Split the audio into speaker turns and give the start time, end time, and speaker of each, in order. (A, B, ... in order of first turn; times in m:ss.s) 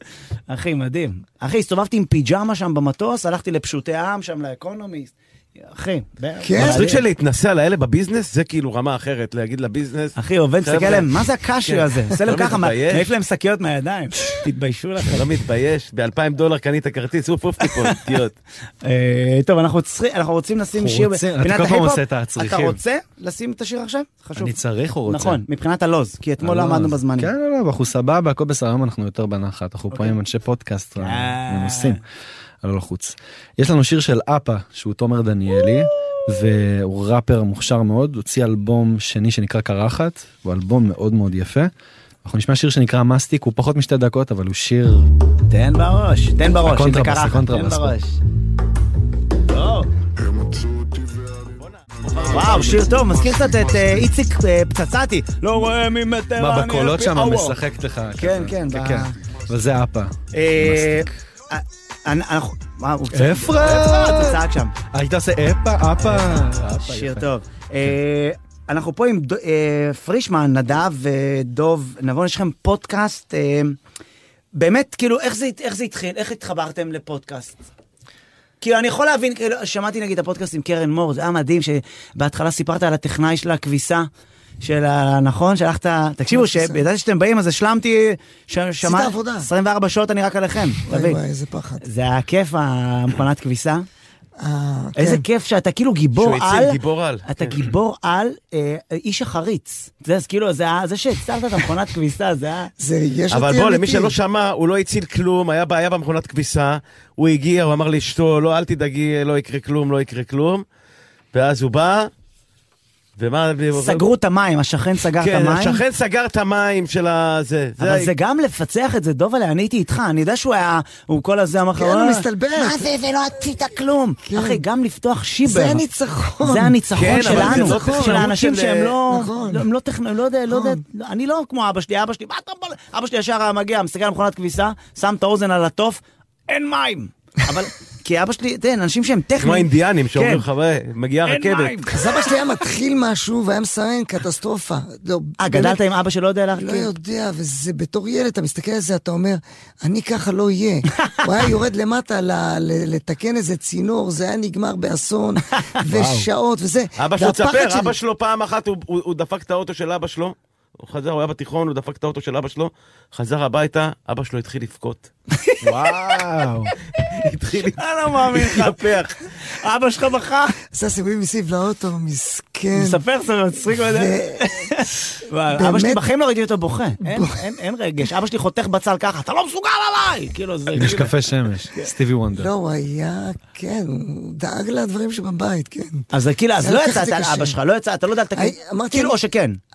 0:00.5-0:07.0 A
0:06.4-0:06.9 B
0:06.6-0:11.1 C
0:10.2-0:15.3 A
0:11.6-0:13.1 C
0:15.1-0:18.3 C
0:17.6-0:18.0 A
0:18.8-0:24.6 A
0:20.7-0:22.8 D
0:24.4-0:25.4 D
0:25.1-0:27.3 A
0:26.4-0:32.0 D
0:29.9-0:30.2 A
0:31.0-0:32.0 A
0:32.6-0:41.7 D
0:42.2-0:45.1 D
0:45.5-0:48.2 A
0:46.6-0:47.9 D
0:49.5-0:49.9 A
0:51.6-0:53.0 C
0:52.3-0:57.5 A
0:56.4-1:01.1 D
0:58.2-0:59.1 A
1:00.3-1:04.7 A
1:03.1-1:04.4 D
1:04.9-1:07.2 D
1:06.8-1:13.8 A
1:14.5-1:17.6 A
1:18.6-1:24.1 A
1:24.6-1:31.2 A
1:26.3-1:26.8 B
1:28.8-1:29.5 B
1:30.9-1:31.8 B
1:31.8-1:33.8 A
1:34.4-1:35.2 B
1:35.0-1:42.7 A
1:36.2-1:37.6 C
1:42.8-1:44.2 B
1:43.3-1:50.6 C
1:51.3-1:52.1 C
1:53.2-1:54.1 C
1:53.7-1:55.8 A
1:55.2-1:58.1 C
1:57.8-2:05.8 A
2:01.7-2:02.9 B
2:04.2-2:04.6 B
2:05.4-2:08.3 B
2:06.4-2:20.4 A
2:06.9-2:08.9 C
2:09.1-2:09.6 B
2:10.5-2:10.8 B
2:19.4-2:21.8 C
2:21.2-2:22.3 A
2:21.9-2:25.8 B
2:25.4-2:26.9 A
2:26.5-2:37.9 B
2:35.9-2:36.3 D
2:37.0-2:45.1 C
2:45.4-2:46.2 A
2:45.6-2:46.7 D
2:47.0-2:49.1 C
2:47.7-2:50.6 A
2:50.7-2:53.0 B
2:52.7-3:01.2 A
2:53.9-2:54.7 B
2:55.5-2:56.0 B
2:57.0-2:57.4 B
3:00.7-3:02.5 D
3:02.3-3:06.1 B
3:06.1-3:09.6 A
3:06.6-3:07.6 B
3:08.3-3:09.2 B